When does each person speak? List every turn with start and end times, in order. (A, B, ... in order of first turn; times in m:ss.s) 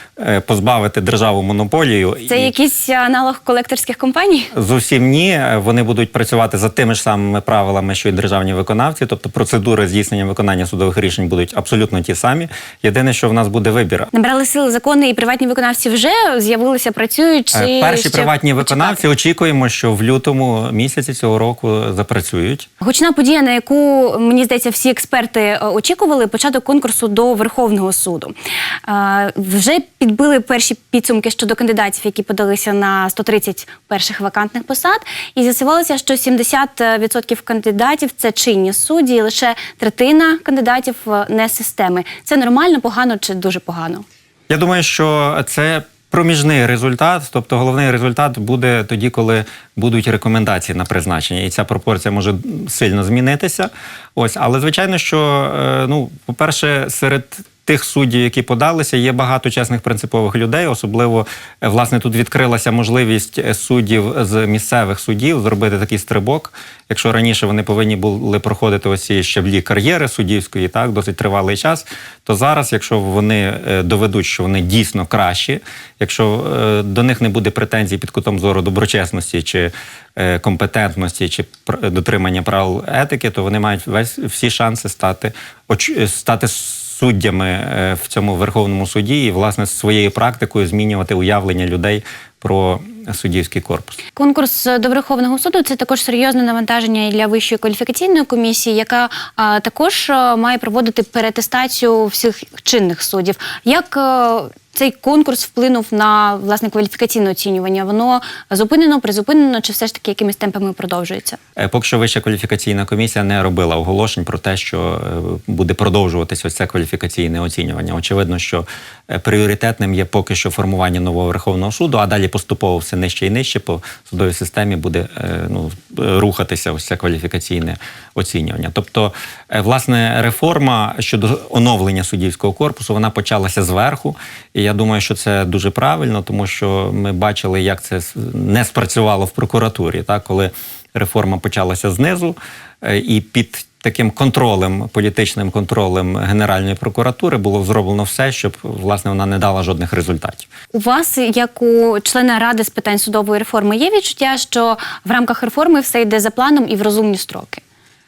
0:00.2-0:02.5 A
0:02.3-0:04.5 B
0:04.5-0:14.1 A
0:14.1-0:19.0 B
0:17.5-0:22.7 A
0:22.8-0:28.3 B
0:28.8-0:44.0 B
0:44.5-1:34.0 A
1:34.2-1:51.4 B
1:51.6-2:30.5 A
2:30.7-2:37.6 B